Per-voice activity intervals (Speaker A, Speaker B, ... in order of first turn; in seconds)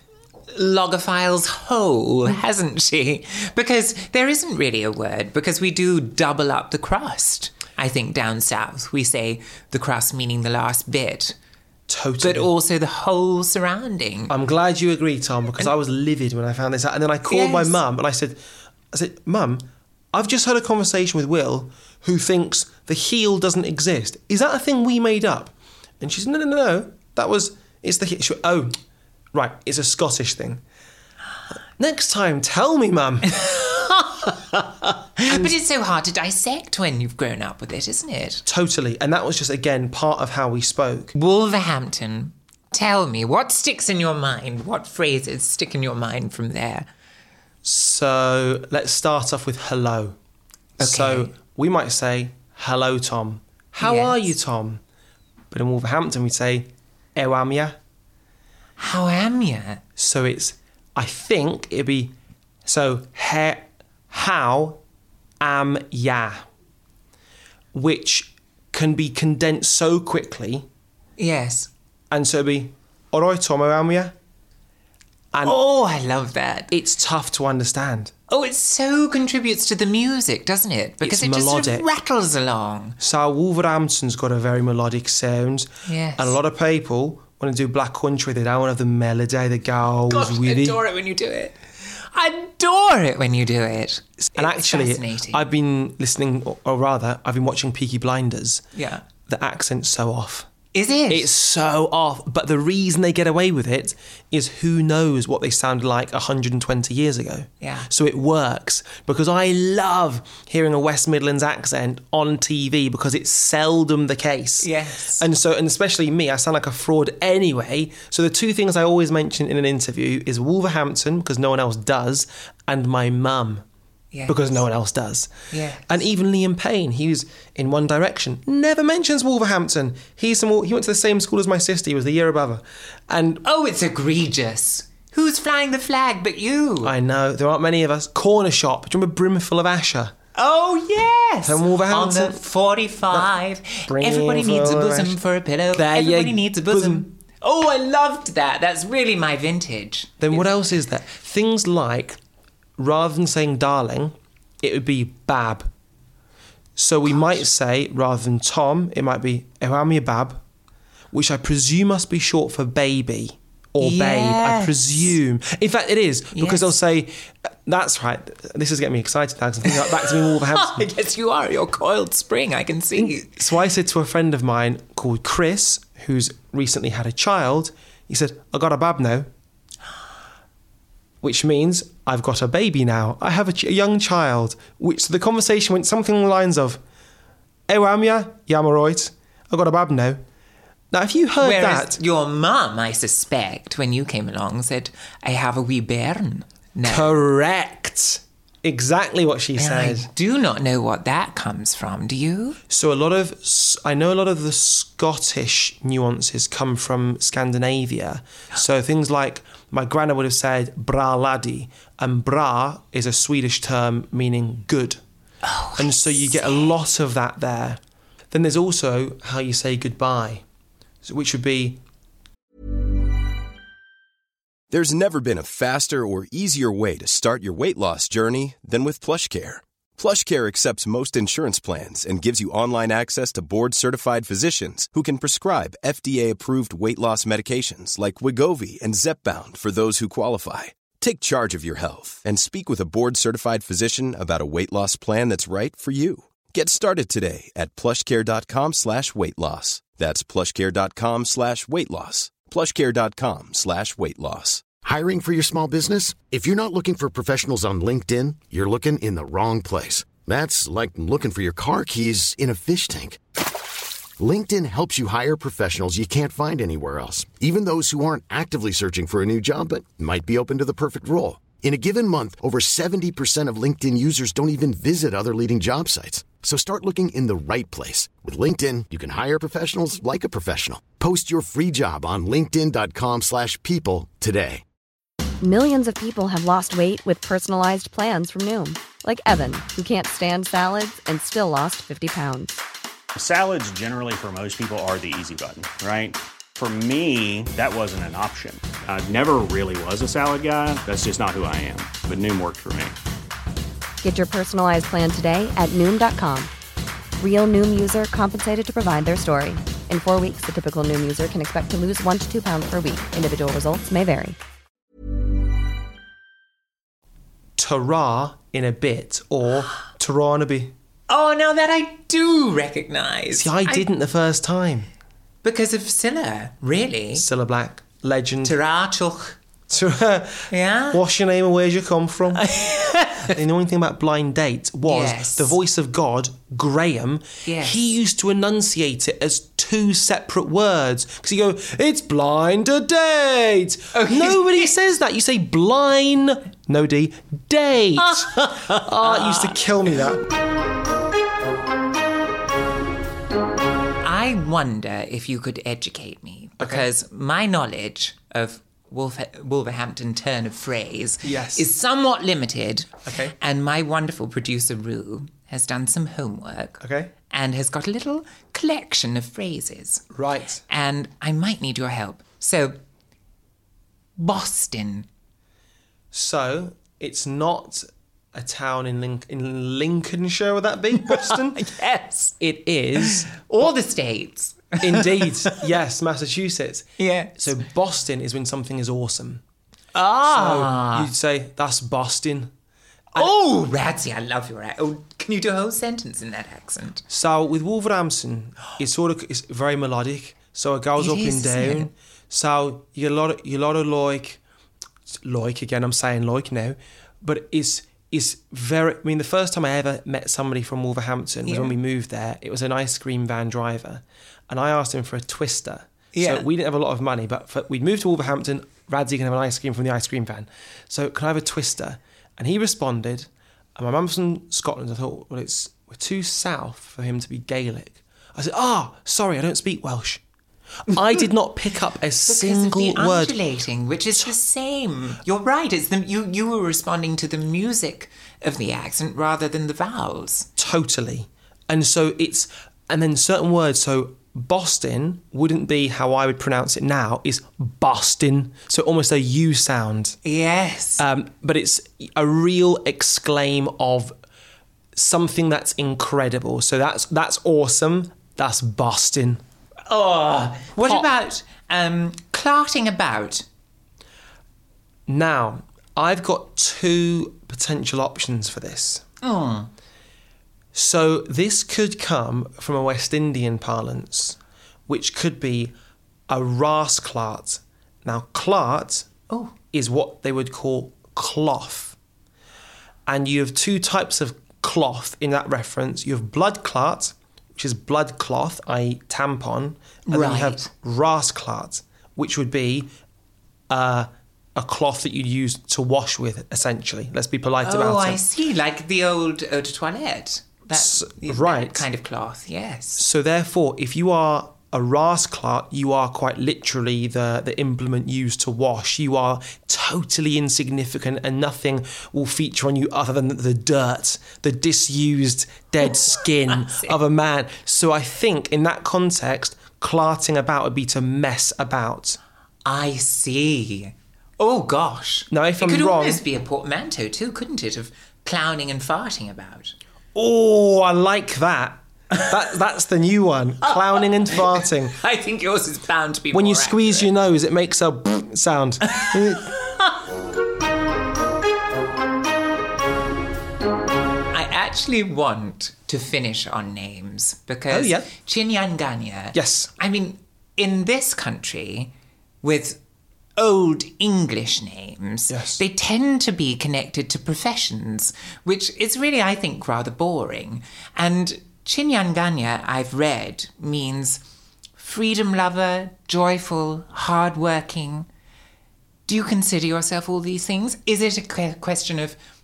Speaker A: 0.5-11.3, 12.2-14.3, 17.2-17.8, 33.4-34.4, 35.2-38.4, 41.1-46.9, 50.8-51.3, 53.8-54.3, 58.8-59.8, 71.2-71.7, 75.4-76.7, 78.3-83.0, 85.8-86.4, 90.1-95.4, 98.7-99.0, 100.7-101.3, 107.6-107.9, 114.6-115.2, 124.1-124.6, 125.5-125.9, 133.4-136.9, 140.3-150.5, 163.8-165.1, 166.3-166.7, 169.6-173.3, 191.4-197.1, 199.6-202.6, 215.4-216.7, 321.1-323.8, 325.4-327.2, 328.4-329.4, 330.5-331.0, 332.3-333.4, 334.8-335.6, 337.4-337.7, 343.9-344.7, 348.0-349.6, 354.0-370.0, 370.7-372.8, 374.2-375.1, 380.9-382.3, 383.0-385.6, 387.0-387.5, 389.9-391.1, 393.1-397.0, 401.0-401.9, 411.4-411.7, 416.1-416.4, 432.3-440.5, 450.2-451.0, 459.9-463.4, 469.2-469.7, 490.1-490.7, 497.6-503.0, 516.5-516.9, 522.6-529.7, 533.6-537.1, 539.0-539.9, 544.3-552.8, 553.4-564.2, 564.8-568.1, 569.1-572.1
Speaker B: 11.9-12.5, 14.3-18.4, 18.9-28.8, 29.3-30.6, 31.5-33.5, 35.3-35.5, 38.5-41.1, 47.6-50.2, 50.8-54.8, 55.5-57.8, 60.0-64.8, 65.4-66.4, 67.7-70.7, 72.1-74.1, 75.3-75.6, 76.7-78.1, 81.0-81.9, 83.0-90.8, 94.2-98.7, 99.2-100.5, 101.1-123.6, 124.3-125.3, 125.8-133.4, 136.8-140.1, 141.4-142.4, 143.1-143.3, 143.8-145.2, 145.7-147.1, 150.2-152.2, 152.8-155.7, 156.8-160.4, 161.1-170.9, 172.9-179.3, 181.2-186.8, 187.7-190.2, 190.9-192.0, 196.8-200.1, 202.7-215.0, 215.7-220.4, 221.0-221.8, 317.6-320.7, 323.3-324.9, 327.1-328.6, 329.7-332.4, 333.3-350.2, 356.6-356.9, 361.2-361.7, 363.0-363.4, 366.8-367.1, 370.1-370.6, 376.1-381.7, 382.4-383.3, 384.8-389.4, 390.2-392.5, 397.1-404.4, 405.1-430.2, 430.9-433.4, 440.6-450.2, 451.0-454.2, 454.9-459.4, 460.8-461.1, 465.1-469.0, 470.7-475.7, 476.3-479.1, 479.7-482.0, 483.1-492.9, 493.7-498.2, 500.7-501.8, 503.0-522.2, 525.3-526.2, 530.1-534.9, 536.3-539.5, 547.7-548.1, 549.3-549.7, 555.3-555.6
Speaker C: 224.7-254.6
Speaker D: 254.8-263.2, 264.2-284.6
Speaker E: 285.4-292.6, 304.0-306.5, 307.2-314.4
Speaker F: 293.1-302.9